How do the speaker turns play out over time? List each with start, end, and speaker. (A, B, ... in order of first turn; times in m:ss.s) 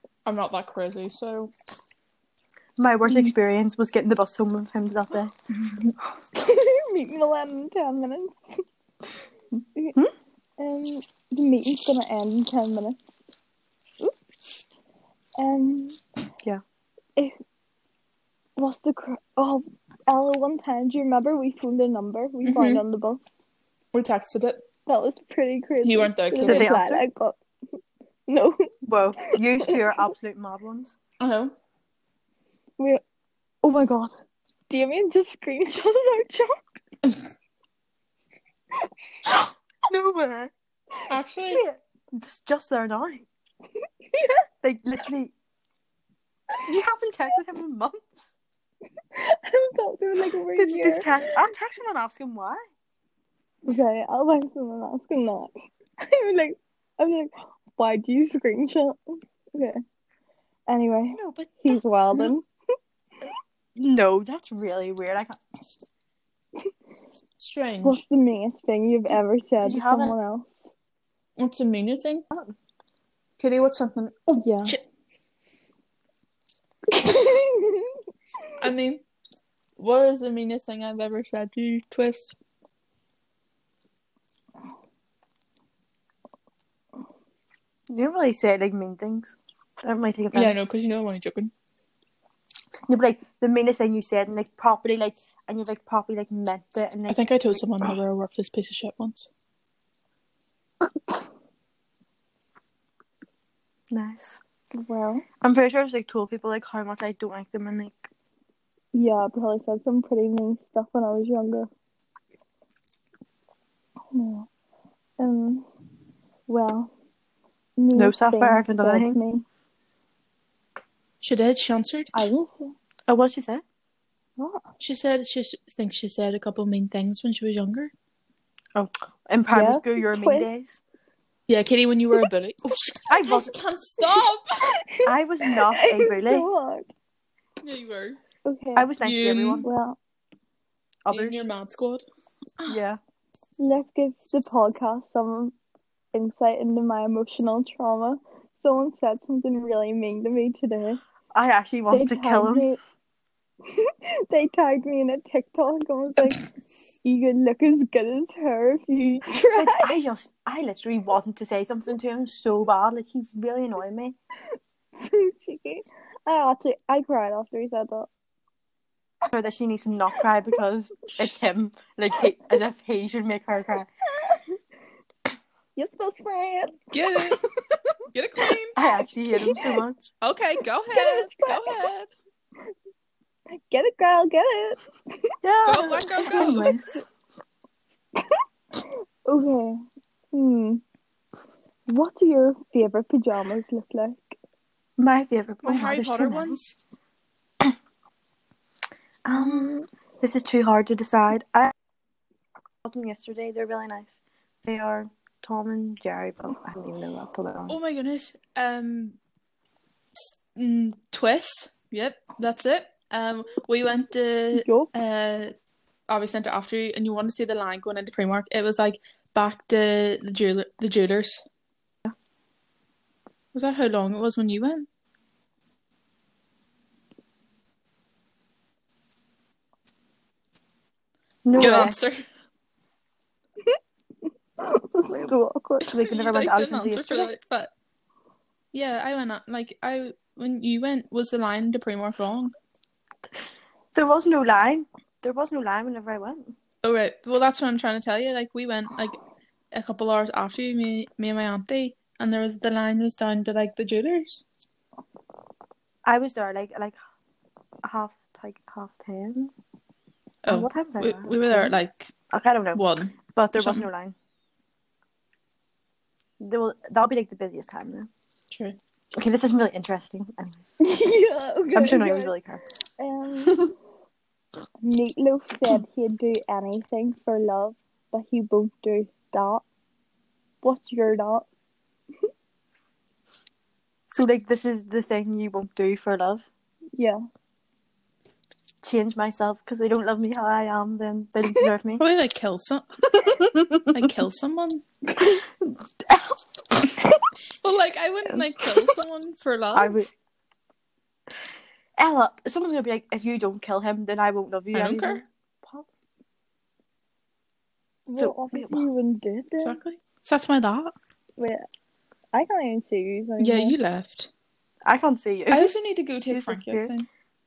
0:00.3-0:01.5 A
0:02.8-0:05.3 B
0:03.1-0:03.3 C
0:05.5-0:05.9 A
0:06.3-0:08.6 C
0:10.6-0:13.0 C
0:15.4-0:16.0 C
0:18.6-0:23.4 C
0:22.4-0:22.8 A
0:23.9-0:24.6 A
0:24.9-0:27.4 C
0:25.8-0:26.8 A
0:26.4-0:27.0 B
0:28.3-0:28.7 C
0:28.8-0:31.0 B
0:29.6-0:30.1 C
0:31.2-0:31.6 A
0:33.6-0:34.0 B
0:33.8-0:34.1 C
0:34.7-0:36.6 C
0:39.3-0:40.5 B
0:41.1-0:41.6 A
0:41.5-0:43.3 B
0:44.1-0:44.4 C
0:44.6-0:45.3 B
0:46.6-0:48.3 B
0:49.2-0:51.4 C
0:50.6-0:52.6 B
0:53.6-0:55.5 C
0:56.0-0:59.8 C
1:00.7-1:02.5 C
1:01.1-1:01.8 B
1:03.8-1:05.4 B
1:07.4-1:08.0 A
1:07.8-1:10.7 C
1:09.6-1:10.2 B
1:11.4-1:12.3 A
1:13.4-1:14.8 A
1:14.3-1:14.8 C
1:16.9-1:17.9 C
1:18.6-1:19.0 A
1:19.8-1:22.4 A
1:27.9-1:30.7 B
1:30.3-1:31.5 A
1:32.9-1:38.0 B
1:37.1-1:39.3 A
1:43.9-1:44.4 B
1:44.7-1:45.2 C
1:45.4-1:48.1 B
1:48.9-1:51.7 C
1:54.1-1:54.5 C
1:55.2-1:55.7 C
1:56.5-1:56.9 C
1:57.8-1:59.4 C
1:58.0-1:59.2 B
2:01.2-2:02.2 A
2:02.2-2:02.7 C
2:03.1-2:03.6 B
2:04.8-2:07.9 A
2:08.8-2:10.8 B
2:09.5-2:10.5 C
2:11.5-2:14.7 A
2:13.1-2:13.6 B
2:14.9-2:16.9 C
2:15.0-2:16.5 B
2:17.6-2:18.2 A
2:18.4-2:18.9 C
2:18.8-2:19.7 B
2:19.0-2:19.6 A
2:19.6-2:20.0 C
2:21.0-2:21.5 B
2:21.1-2:22.0 A
2:22.7-2:23.0 B
2:23.6-2:25.6 C
2:26.1-2:31.0 C
2:31.3-2:32.7 B
2:31.9-2:32.8 C
2:33.7-2:36.4 C
2:37.0-2:40.0 C
2:39.5-2:44.2 B
2:45.0-2:48.1 C
2:49.3-2:53.9 B
2:55.8-2:56.8 C
2:56.9-2:57.4 A
2:58.1-2:58.8 A
2:58.8-3:00.1 B
2:59.3-2:59.7 C
3:00.2-3:02.1 A
3:01.0-3:01.8 C
3:03.5-3:04.8 C
3:05.4-3:07.0 B
3:05.6-3:06.8 A
3:05.8-3:06.7 C
3:09.3-3:09.8 C
3:10.3-3:10.8 C
3:11.9-3:14.4 C
3:15.0-3:16.6 B
3:15.6-3:16.8 A
3:19.2-3:21.7 B
3:19.4-3:19.9 C
3:22.8-3:27.8 B
3:27.7-3:29.2 A
3:30.2-3:35.5 A
3:34.5-3:34.9 C
3:36.1-3:41.4 A
3:43.5-3:44.9 A
3:51.4-3:52.0 B
3:51.6-3:52.2 A
3:54.6-3:55.9 C
3:55.8-3:57.3 B
3:55.8-3:57.7 A
3:58.7-4:02.5 A
4:04.0-4:06.5 B
4:06.8-4:09.2 A
4:09.7-4:14.4 A
4:16.1-4:17.0 B
4:17.8-4:19.5 B
4:20.4-4:22.1 A
4:20.5-4:21.7 B
4:22.3-4:22.8 B
4:22.7-4:23.9 A
4:23.4-4:24.2 B
4:26.4-4:28.1 B
4:28.5-4:28.8 A
4:29.1-4:30.7 B
4:30.8-4:32.4 C
4:31.7-4:32.6 B
4:33.0-4:33.7 C
4:34.8-4:39.6 C
4:40.6-4:41.5 C
4:44.1-4:46.5 B
4:48.8-4:52.0 B
4:52.0-4:52.9 A
4:53.1-4:54.0 B
4:53.9-4:54.8 A
4:55.2-4:56.4 B
4:57.6-5:00.0 A
4:59.7-5:00.1 B
5:02.0-5:05.9 B
5:04.7-5:05.2 A
5:08.1-5:09.8 C
5:08.1-5:08.9 B
5:09.6-5:10.9 A
5:11.4-5:11.6 C
5:12.3-5:13.8 C
5:13.4-5:14.3 A
5:14.9-5:15.7 B
5:15.5-5:17.1 A
5:16.3-5:16.9 B